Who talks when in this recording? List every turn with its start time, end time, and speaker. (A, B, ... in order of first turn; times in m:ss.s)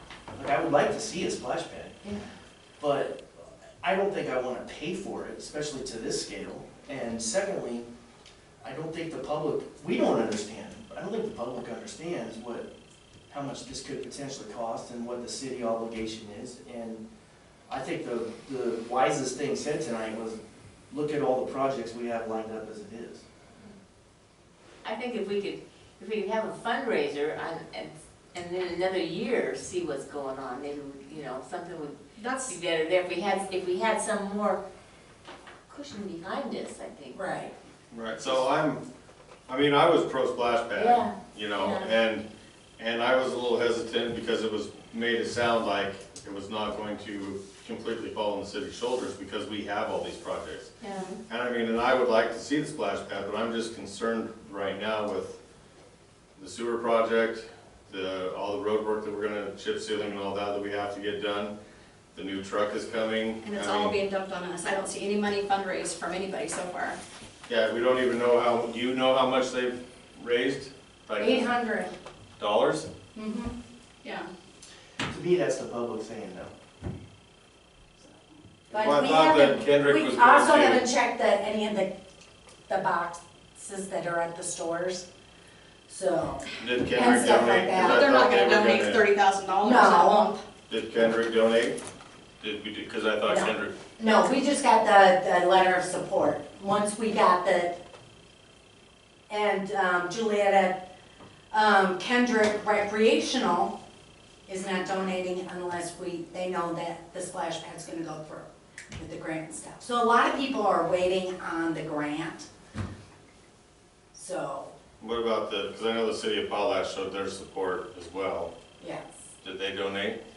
0:00.3-0:02.0 A
0:02.8-0:07.8 A
0:08.6-0:12.7 A
0:13.3-0:17.0 A
0:17.7-0:23.2 A
0:24.8-0:34.6 B
0:32.2-0:32.6 C
0:35.7-0:37.2 B
0:37.1-0:37.5 D
0:37.9-0:38.8 E
0:39.5-0:42.2 E
0:40.7-0:41.9 B
0:42.8-0:50.7 E
0:50.8-0:51.1 B
0:51.3-0:55.4 E
0:56.4-1:01.5 E
1:02.1-1:04.0 E
1:03.4-1:07.0 C
1:07.5-1:11.5 E
1:11.2-1:11.9 D
1:12.4-1:12.9 E
1:13.1-1:13.5 D
1:14.0-1:14.3 C
1:15.0-1:16.5 A
1:18.7-1:21.9 D
1:18.8-1:20.8 E
1:22.7-1:25.0 D
1:25.9-1:28.1 D
1:26.6-1:29.0 E
1:27.7-1:30.4 C
1:29.6-1:30.3 D
1:30.7-1:31.8 E
1:32.4-1:33.7 E
1:33.2-1:37.7 D
1:39.3-1:40.8 D
1:41.5-1:43.8 D
1:44.5-1:52.5 D
1:54.1-1:54.7 D
1:55.0-1:58.5 E
1:58.8-1:59.0 D
1:59.4-2:00.2 E